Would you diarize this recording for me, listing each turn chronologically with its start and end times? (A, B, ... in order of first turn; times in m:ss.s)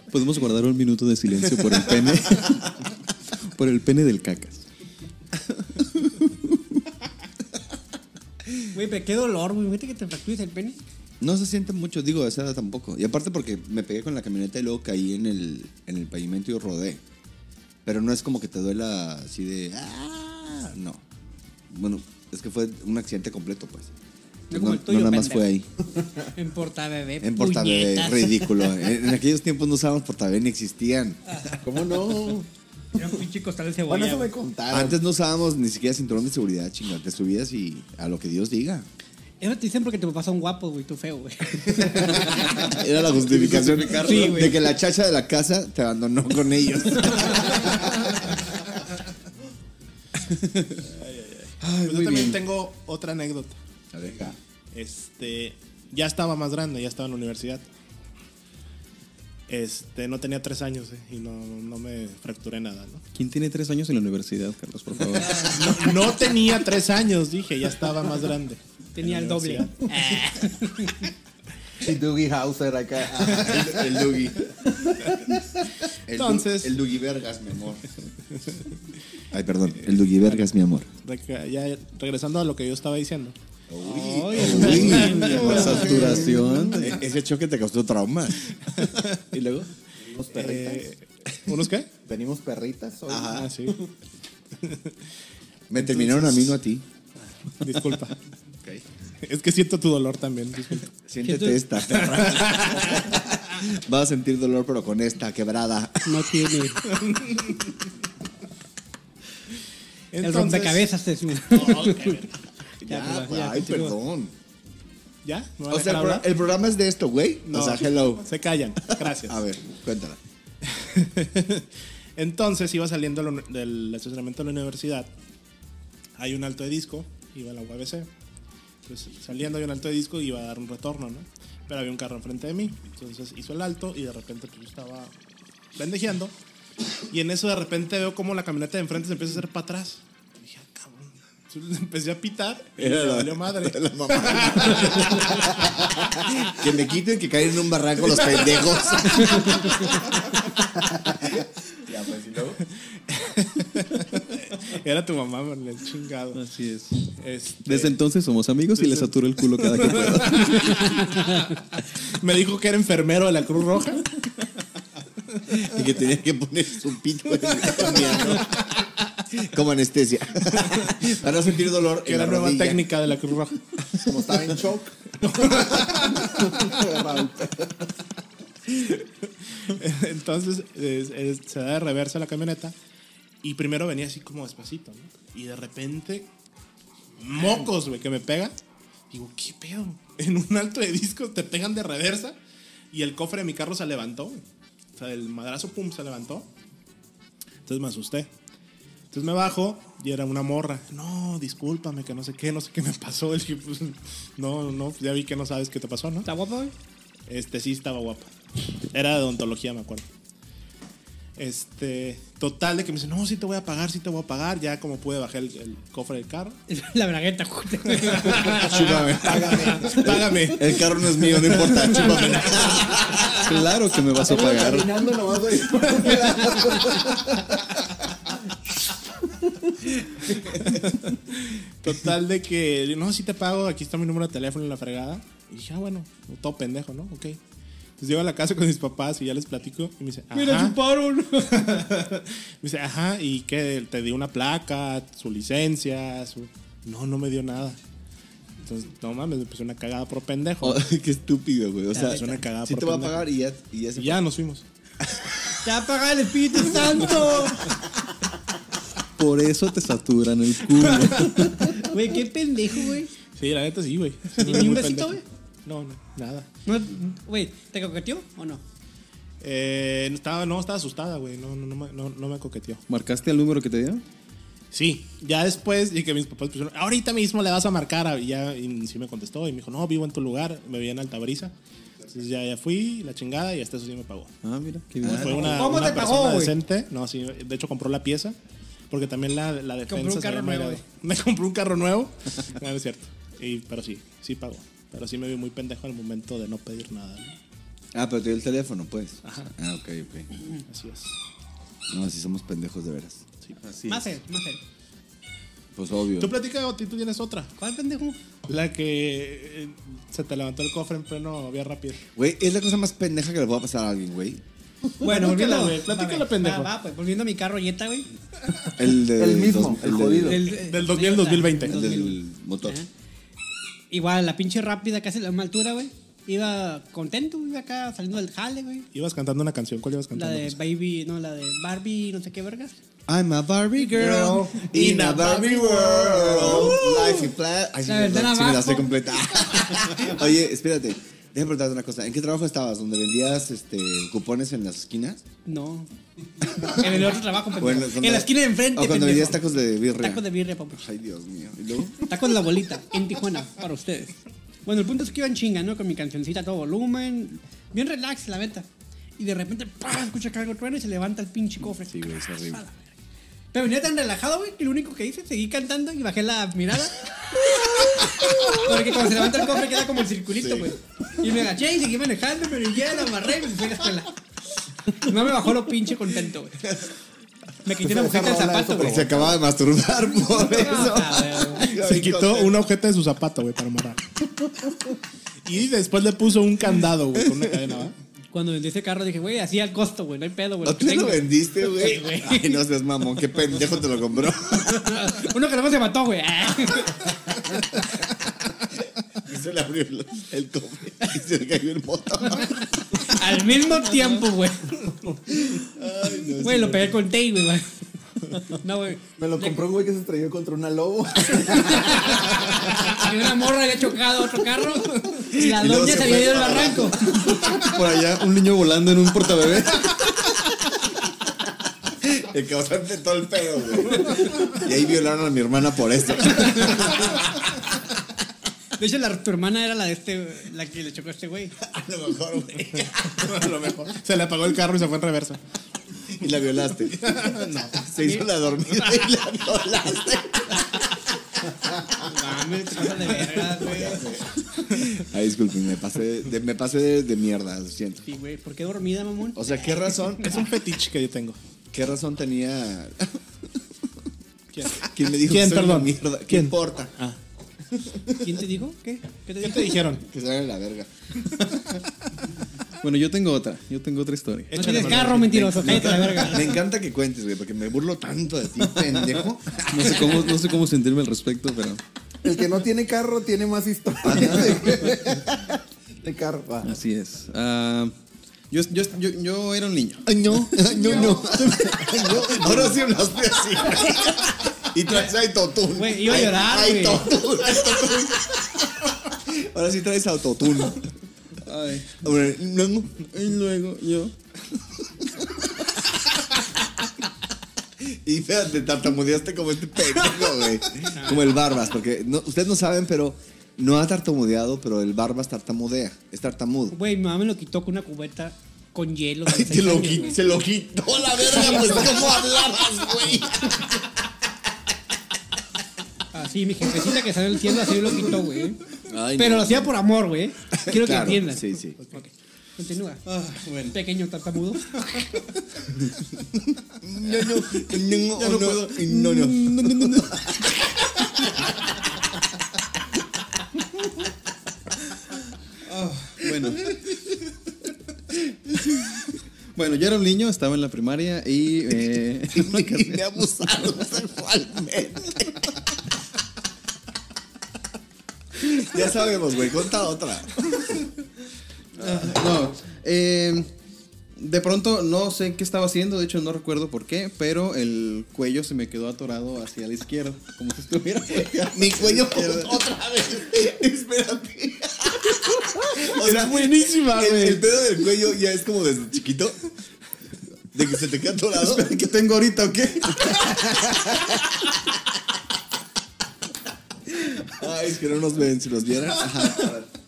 0:00.1-0:02.8 A
0:03.6-0:04.6 A
0:05.8-0:06.6 B
0:08.7-0:10.8 C
0:11.2-0:17.0 B
0:17.8-0:21.0 B
0:21.7-0:23.9 B
0:24.5-0:25.5 C
0:24.5-0:25.7 B
0:26.3-0:29.0 C
0:27.2-0:31.2 B
0:31.3-0:31.6 C
0:31.6-0:32.5 D
0:32.9-0:34.3 C
0:33.9-0:35.0 D
0:34.7-0:38.9 B
0:39.4-0:42.7 C
0:42.3-0:48.4 B
0:43.2-0:44.6 A
0:43.9-0:44.6 C
0:50.8-0:53.6 E
0:51.7-0:52.3 A
0:53.9-0:54.4 B
0:54.7-0:57.6 E
0:59.5-1:03.0 E
1:03.1-1:05.6 A
1:05.2-1:10.0 E
1:09.0-1:11.1 C
1:11.8-1:15.7 D
1:13.1-1:14.5 B
1:16.1-1:17.9 B
1:16.1-1:16.8 E
1:18.4-1:18.8 E
1:19.3-1:20.9 B
1:19.8-1:20.4 E
1:21.0-1:23.4 E
1:23.7-1:29.7 B
1:23.8-1:25.8 C
1:24.4-1:26.0 E
1:24.6-1:26.9 A
1:25.9-1:26.6 D
1:28.8-1:29.2 E
1:30.0-1:30.8 D
1:30.3-1:31.9 E
1:32.0-1:33.8 D
1:33.1-1:33.5 B
1:33.2-1:33.8 E
1:34.6-1:34.9 E
1:35.7-1:36.8 B
1:35.8-1:36.5 E
1:37.6-1:38.2 E
1:39.2-1:40.9 E
1:41.1-1:46.3 B
1:41.2-1:41.7 C
1:46.0-1:46.8 C
1:46.8-1:47.7 E
1:50.1-1:50.9 E
1:50.2-1:52.2 C
1:51.4-1:52.4 E
1:52.8-1:54.3 B
1:52.8-1:54.0 C
1:55.2-1:56.3 E
1:55.7-1:58.3 B
1:57.5-1:59.4 E
1:58.8-2:00.2 B
2:00.6-2:05.1 E
2:06.2-2:08.1 E
2:08.8-2:15.1 E
2:15.8-2:16.4 E
2:17.1-2:25.6 E
2:22.8-2:30.1 B
2:31.2-2:32.6 B
2:33.1-2:36.4 E
2:36.3-2:37.0 A
2:37.1-2:38.0 E
2:37.6-2:41.0 A
2:38.8-2:41.4 E
2:42.0-2:44.2 E
2:45.5-2:48.6 B
2:49.3-2:52.9 B
2:52.0-2:53.8 E
2:54.0-2:57.8 D
2:55.2-2:56.4 E
2:59.5-3:02.8 E
3:03.4-3:06.3 E
3:07.2-3:08.6 E
3:09.1-3:12.4 E
3:12.9-3:14.4 E
3:15.0-3:16.5 E
3:17.6-3:18.3 E
3:19.1-3:26.3 E
3:26.3-3:26.7 C
3:27.3-3:30.1 E
3:31.4-3:36.6 E
3:36.7-3:39.0 C
3:37.9-3:42.6 E
3:38.4-3:43.5 B
3:39.1-3:40.2 D
3:41.7-3:42.3 C
3:43.2-3:45.0 A
3:44.2-3:48.3 D
3:46.2-3:46.6 C
3:50.6-3:57.4 E
3:58.0-4:00.8 E
4:00.3-4:01.8 C
4:01.4-4:07.8 E
4:08.6-4:10.8 E
4:10.6-4:14.2 B
4:11.9-4:12.3 C
4:11.9-4:13.3 E
4:14.0-4:14.6 E
4:15.1-4:15.6 B
4:15.6-4:17.7 C
4:19.2-4:21.9 A
4:21.7-4:23.1 C
4:23.4-4:26.5 E
4:24.4-4:25.2 C
4:26.6-4:28.6 C
4:29.4-4:32.8 E
4:32.9-4:34.0 A
4:34.7-4:41.5 E
4:42.1-4:44.4 E
4:44.4-4:45.5 A
4:45.0-4:48.4 E
4:45.1-4:46.5 C
4:48.9-4:57.4 E
4:49.9-4:50.8 C
4:57.9-5:00.3 B
4:59.2-4:59.5 E
5:00.7-5:01.2 E
5:01.9-5:03.2 B
5:03.6-5:04.1 A
5:03.9-5:04.6 C
5:05.7-5:06.3 B
5:06.2-5:07.5 E
5:07.6-5:08.2 C
5:08.5-5:12.0 E
5:12.2-5:14.4 B
5:15.0-5:16.7 E
5:15.0-5:18.1 C
5:18.6-5:20.4 B
5:19.0-5:20.4 D
5:20.2-5:22.9 C
5:20.6-5:21.8 E
5:21.6-5:22.8 B
5:23.9-5:28.9 C
5:28.9-5:30.6 E
5:30.1-5:32.8 C
5:33.1-5:45.2 B
5:33.9-5:37.3 C
5:35.3-5:35.6 D
5:36.3-5:36.7 D
5:37.8-5:38.9 C
5:45.5-5:45.9 C
5:46.5-5:49.4 C
5:46.6-5:46.9 B
5:47.6-5:52.1 B
5:50.0-5:50.9 C
5:52.0-5:58.6 C
5:59.2-6:02.9 C
6:01.9-6:02.6 B
6:03.5-6:14.2 C
6:07.5-6:08.8 B
6:10.4-6:10.7 B
6:14.9-6:16.7 C
6:16.6-6:16.9 B
6:17.6-6:19.2 C
6:17.8-6:19.4 D
6:18.8-6:22.6 B
6:20.3-6:21.7 C
6:21.6-6:24.0 E
6:25.4-6:27.9 E
6:27.2-6:27.6 B
6:28.3-6:32.6 C
6:30.6-6:35.2 B
6:34.6-6:37.4 C
6:37.5-6:37.9 B
6:39.1-6:43.1 B
6:42.4-6:45.0 C
6:45.3-6:47.0 B
6:46.4-6:49.6 C
6:49.2-6:52.6 D
6:51.5-6:57.3 C
6:55.2-6:57.6 B
6:57.3-7:00.1 A
7:01.9-7:07.6 B
7:06.4-7:06.9 C
7:08.8-7:11.6 C
7:11.6-7:13.6 B
7:13.0-7:15.4 E
7:16.0-7:22.0 B
7:17.0-7:17.9 E
7:18.0-7:18.3 C
7:22.0-7:24.2 C
7:23.5-7:28.1 B
7:28.1-7:30.0 C
7:29.4-7:30.5 B
7:30.2-7:31.4 E
7:31.7-7:33.7 B
7:34.5-7:37.2 E
7:34.8-7:36.9 B
7:37.8-7:38.3 B
7:38.1-7:39.8 C
7:39.4-7:40.0 E
7:40.0-7:41.7 B
7:42.8-7:46.2 A
7:44.5-7:46.3 E
7:44.5-7:46.6 C
7:46.2-7:50.4 B
7:49.6-7:51.8 A
7:52.2-7:56.7 D
7:54.0-7:55.2 B
7:56.6-7:57.9 A
7:58.5-8:00.6 A
8:00.1-8:10.9 B
8:05.7-8:07.2 C
8:11.4-8:12.0 A
8:12.0-8:13.1 B
8:13.0-8:14.1 A
8:15.2-8:15.4 B
8:17.8-8:26.8 B
8:20.9-8:21.3 C
8:26.7-8:30.2 C
8:29.2-8:33.8 B
8:31.4-8:32.1 C
8:36.1-8:43.0 C
8:38.9-8:39.7 B
8:40.5-8:41.8 B
8:43.1-8:43.8 A
8:43.7-8:45.3 C
8:46.8-8:50.6 B
8:47.2-8:51.5 A
8:55.6-8:56.8 A
8:59.5-9:03.0 A
9:02.3-9:05.5 B
9:08.4-9:10.7 B
9:11.8-9:13.5 A
9:11.8-9:12.2 B
9:14.2-9:22.5 A
9:21.4-9:29.4 B
9:25.3-9:27.4 E
9:30.5-9:31.7 B
9:31.4-9:33.6 A
9:36.9-9:39.7 B